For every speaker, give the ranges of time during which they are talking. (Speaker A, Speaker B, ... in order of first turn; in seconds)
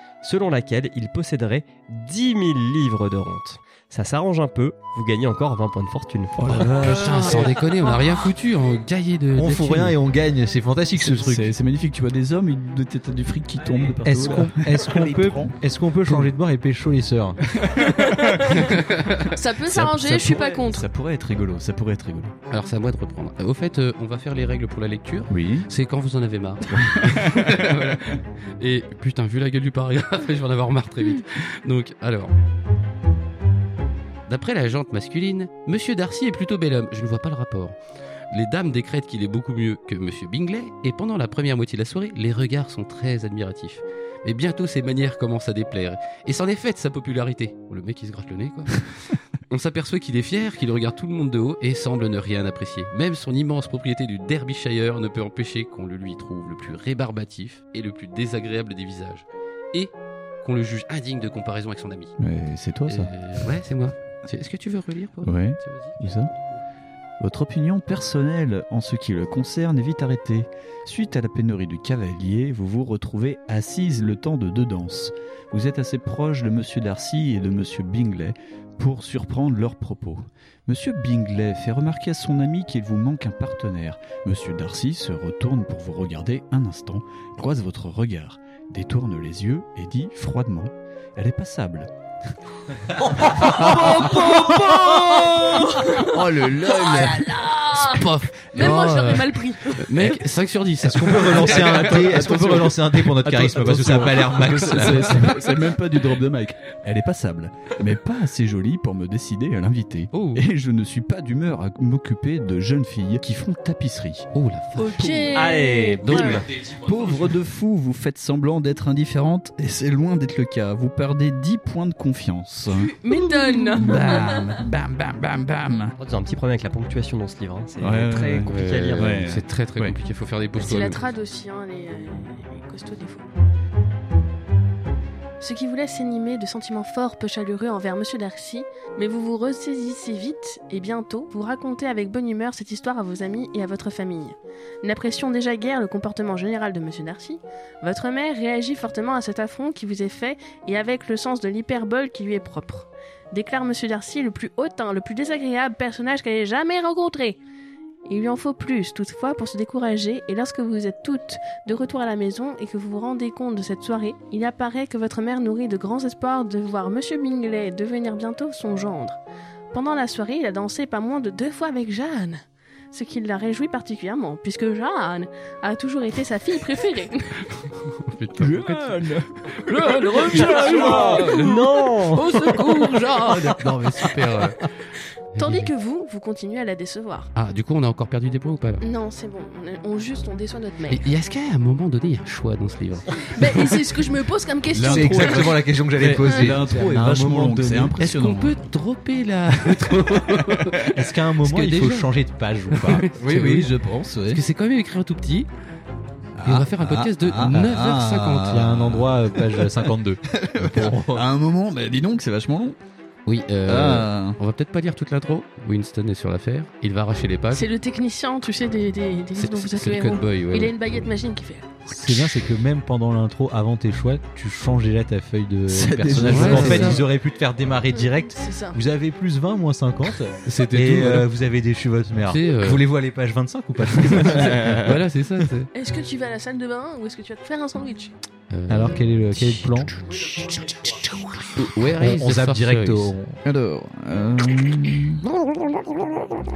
Speaker A: 0.2-6.7, 126.0-129.2, 180.6-182.3
Speaker B: 6.4-7.1, 11.0-15.5, 16.1-16.3, 17.5-18.7, 19.7-22.3, 25.3-25.7, 26.7-27.7, 62.2-63.1, 65.2-66.3, 67.2-91.9, 93.3-95.6, 101.2-114.3, 115.0-122.9, 123.7-125.9, 127.8-130.0, 178.4-181.7, 182.6-184.6, 194.7-198.6, 203.1-204.4, 206.4-212.8, 213.7-214.4, 225.7-227.1, 234.3-234.9, 243.4-245.2
Speaker C: 6.8-10.0, 18.5-19.3, 22.5-32.3, 34.3-37.8, 38.3-62.2, 62.9-66.0, 93.5-102.8, 103.3-105.8, 110.1-110.5, 114.3-115.5, 116.0-117.3, 128.5-131.1, 177.6-184.7, 185.3-185.7, 187.3-188.8, 190.9-193.8, 198.0-200.9, 201.4-202.1, 202.7-203.7, 204.3-205.5, 206.4-208.6, 213.3-217.7, 219.3-220.9, 226.2-227.0, 230.4-231.3, 232.3-232.8, 234.0-235.7, 238.5-243.1, 245.4-246.3
Speaker D: 6.8-8.2, 17.9-18.7, 19.3-20.9, 93.6-94.6, 95.5-99.9, 114.8-116.4, 123.0-124.4, 130.6-133.3, 135.4-157.4, 158.1-169.2, 169.7-177.4, 182.3-183.0, 185.4-187.3, 188.8-191.1, 193.2-195.6, 196.2-196.6, 217.5-221.9, 227.9-228.8, 235.7-238.1
Speaker E: 9.4-11.5, 14.0-17.4, 100.8-105.4, 194.8-197.9, 200.9-203.1, 208.3-211.2, 221.9-234.7, 238.7-239.9, 241.8-243.4